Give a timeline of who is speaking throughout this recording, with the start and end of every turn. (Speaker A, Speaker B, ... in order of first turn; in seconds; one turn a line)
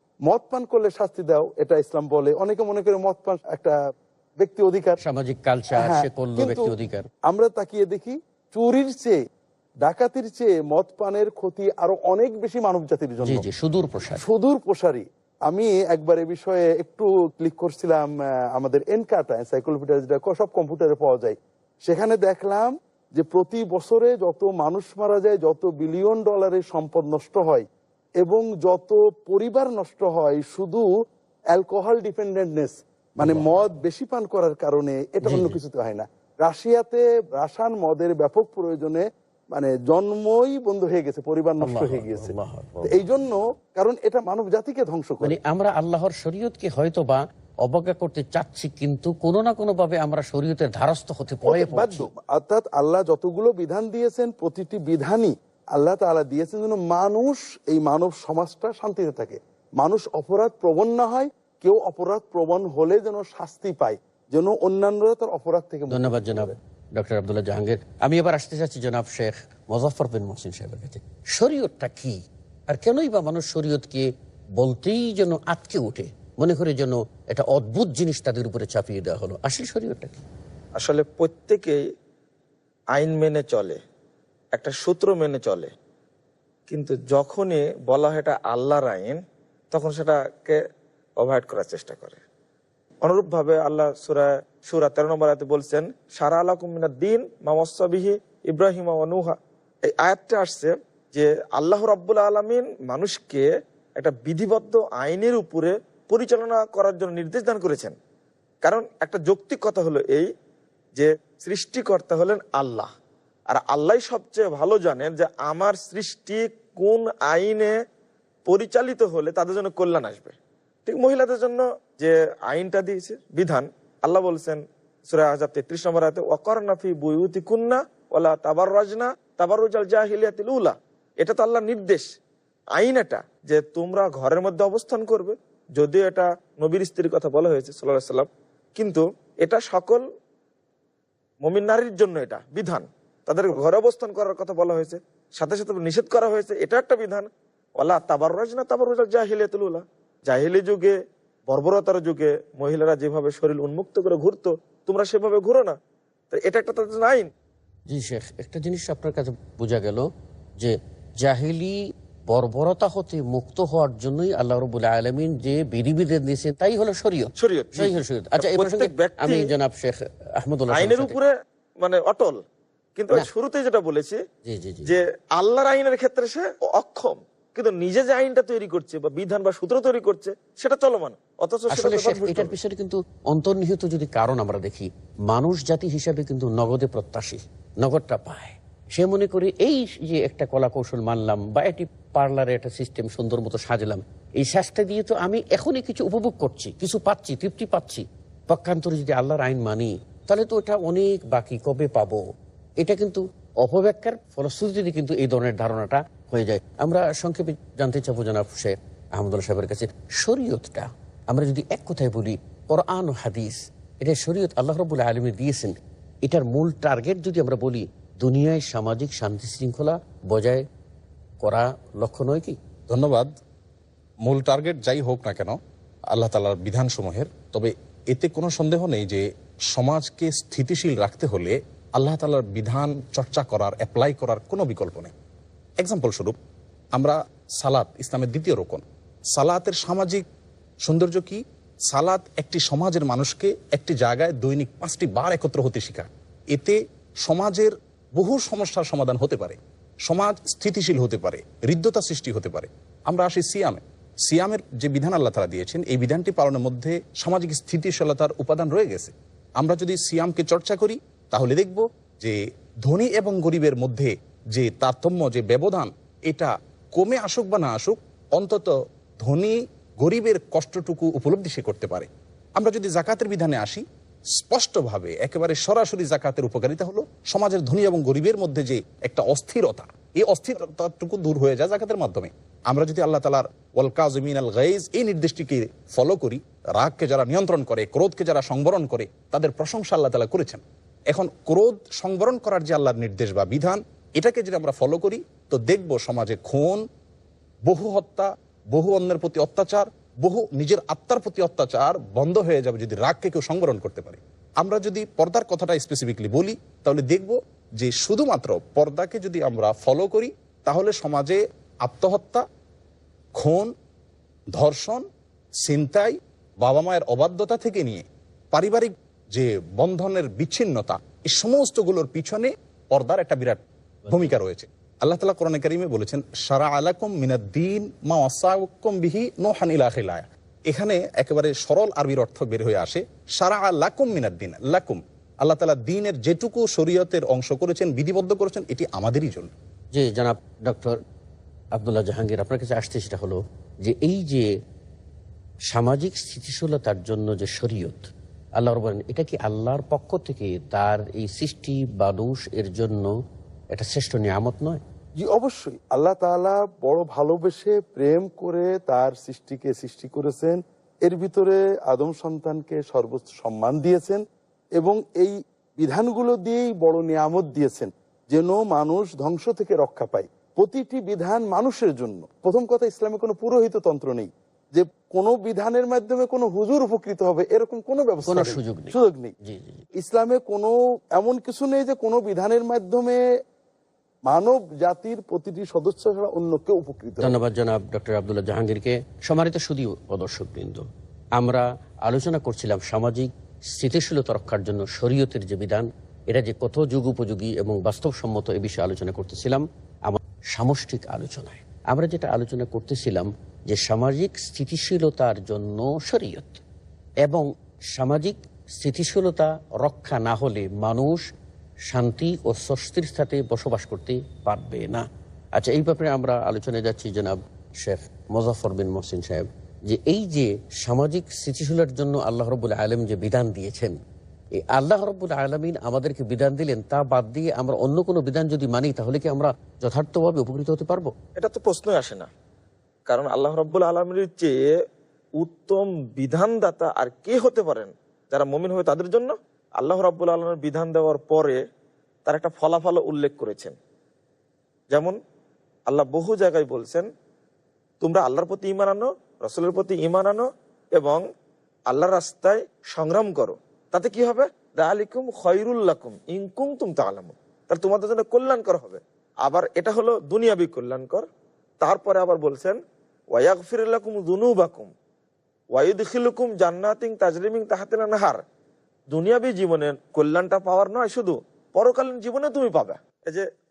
Speaker A: 0.2-3.8
Speaker A: 4.4-5.0
Speaker B: 5.0-7.1
Speaker A: 5.8-6.7
Speaker A: 7.2-9.2
Speaker A: 9.8-13.4
Speaker B: 13.2-14.2
Speaker A: 14.2-27.7
Speaker A: 28.2-30.9
Speaker A: 31.5-42.3
Speaker B: 33.2-33.5
Speaker B: 35.2-35.6
Speaker B: 41.6-43.0
Speaker A: 42.9-45.3
Speaker B: 45.2-52.1
Speaker A: 51.4-66.5
Speaker B: 65.9-80.2
Speaker C: 80.8-81.8
Speaker C: 82.9-83.8
Speaker C: 84.5-85.7
Speaker C: 86.7-89.2
Speaker C: 89.7-90.6
Speaker C: 91.2-92.2
Speaker C: 93.0-107.9
Speaker C: 108.6-110.3
Speaker C: 111.0-112.9
Speaker C: 113.5-117.8
Speaker C: 118.5-120.3
Speaker C: 120.8-132.1
Speaker C: 132.8-140.0
Speaker C: 141.4-147.3
Speaker C: 147.8-150.9
Speaker C: 151.5-155.8
Speaker C: 156.3-157.3
Speaker B: 157.9-160.1
Speaker B: 160.6-171.2
Speaker C: 167.4-169.5
Speaker C: 170.7-172.4
Speaker C: 173.0-174.2
Speaker B: 174.4-174.9
Speaker C: 174.8-182.5
Speaker B: 181.7-202.2
Speaker B: 202.8-220.6
Speaker B: 221.4-222.6
Speaker D: 222.9-223.3
Speaker D: 224.2-225.6
Speaker D: 226.1-235.1
Speaker D: 235.8-236.3
Speaker D: 236.9-238.8
Speaker D: 239.3-240.2
Speaker D: 240.8-273.8
Speaker D: 274.4-296.8
Speaker D: 297.6-312.4
Speaker D: 313.4-313.7
Speaker D: 314.5-315.0
Speaker D: 315.6-339.5
Speaker B: 339.9-341.0
Speaker B: 341.7-344.5
Speaker B: 345.7-353.1
Speaker B: 353.7-354.8
Speaker A: 355.2-364.2
Speaker A: 364.8-379.3
Speaker B: 378.3-379.8
Speaker A: 380.0-383.2
Speaker A: 384.3-387.4
Speaker B: 387.2-406.6
Speaker B: 407.2-411.2
Speaker B: 411.9-424.0
Speaker B: 424.5-431.1
Speaker C: 431.4-432.3
Speaker C: 433.1-434.8
Speaker C: 435.4-441.6
Speaker C: 442.2-443.7
Speaker C: 444.9-445.2
Speaker C: 445.9-447.1
Speaker C: 448.0-451.2
Speaker C: 451.9-461.2
Speaker C: 461.8-462.8
Speaker C: 463.3-464.9
Speaker C: 465.7-468.4
Speaker C: 469.1-473.5